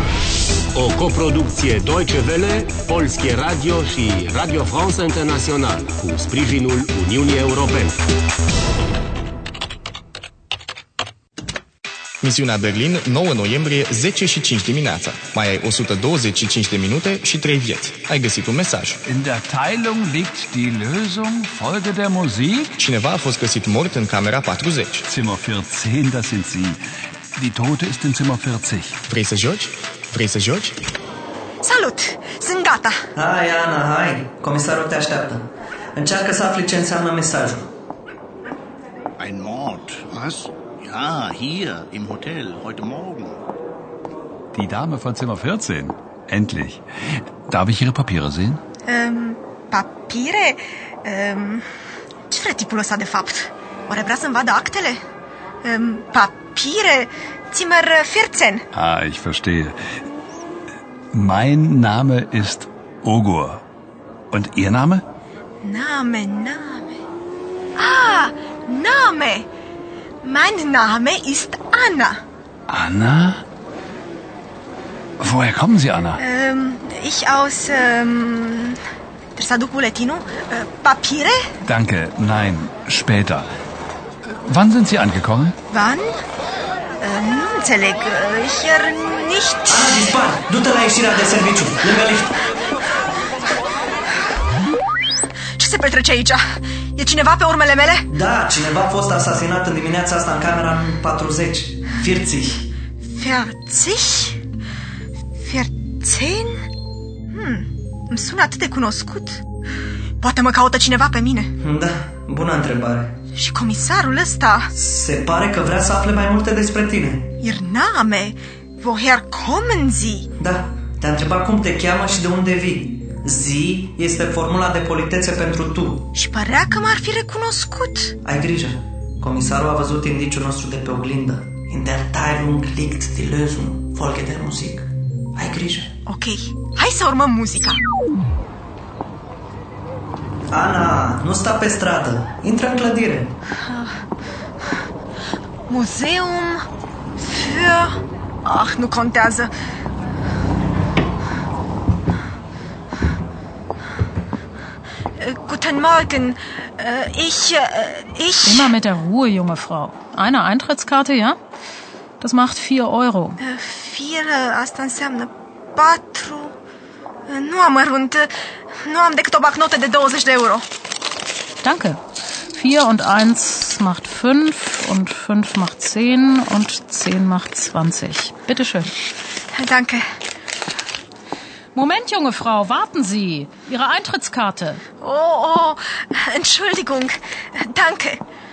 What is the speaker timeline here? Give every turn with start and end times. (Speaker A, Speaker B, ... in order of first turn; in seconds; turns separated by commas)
Speaker A: 0.7-8.0, Speaker B: 12.2-19.0, Speaker C: 19.1-22.8, Speaker B: 22.8-25.0, Speaker C: 25.1-26.8, Speaker C: 27.4-29.0, Speaker B: 29.1-30.8, Speaker D: 31.6-33.0, Speaker E: 33.2-37.7, Speaker F: 39.2-43.4, Speaker C: 44.5-48.6, Speaker D: 48.9-51.6, Speaker D: 52.3-55.0, Speaker D: 55.6-58.6, Speaker C: 58.7-59.8, Speaker C: 61.1-63.6, Speaker C: 64.3-65.0, Speaker D: 65.6-67.0, Speaker D: 67.8-69.5, Speaker D: 70.2-72.2, Speaker C: 72.7-73.4, Speaker C: 75.2-76.2, Speaker D: 76.2-78.8, Speaker D: 79.4-81.4, Speaker C: 81.6-83.5, Speaker C: 84.4-85.5, Speaker D: 85.7-86.2, Speaker D: 87.0-90.2, Speaker E: 89.7-92.4, Speaker D: 95.6-98.1, Speaker E: 98.1-102.7, Speaker D: 103.1-104.4, Speaker D: 105.4-106.7, Speaker D: 107.3-109.4, Speaker D: 110.2-111.5, Speaker E: 111.6-113.1, Speaker D: 113.3-114.7, Speaker E: 114.7-117.3, Speaker D: 117.4-120.3, Speaker E: 120.4-126.1, Speaker D: 126.1-128.2, Speaker E: 128.2-135.9, Speaker D: 136.1-137.8, Speaker E: 140.5-143.3, Speaker D: 143.6-144.0, Speaker D: 145.7-146.7, Speaker D: 147.2-149.5, Speaker D: 155.2-158.7, Speaker G: 158.4-161.4, Speaker G: 162.2-163.4, Speaker D: 163.4-166.5, Speaker D: 167.3-168.3, Speaker D: 168.8-170.7, Speaker G: 171.6-172.0, Speaker G: 172.5-178.9, Speaker D: 179.5-180.1, Speaker G: 181.7-184.8, Speaker D: 185.0-188.2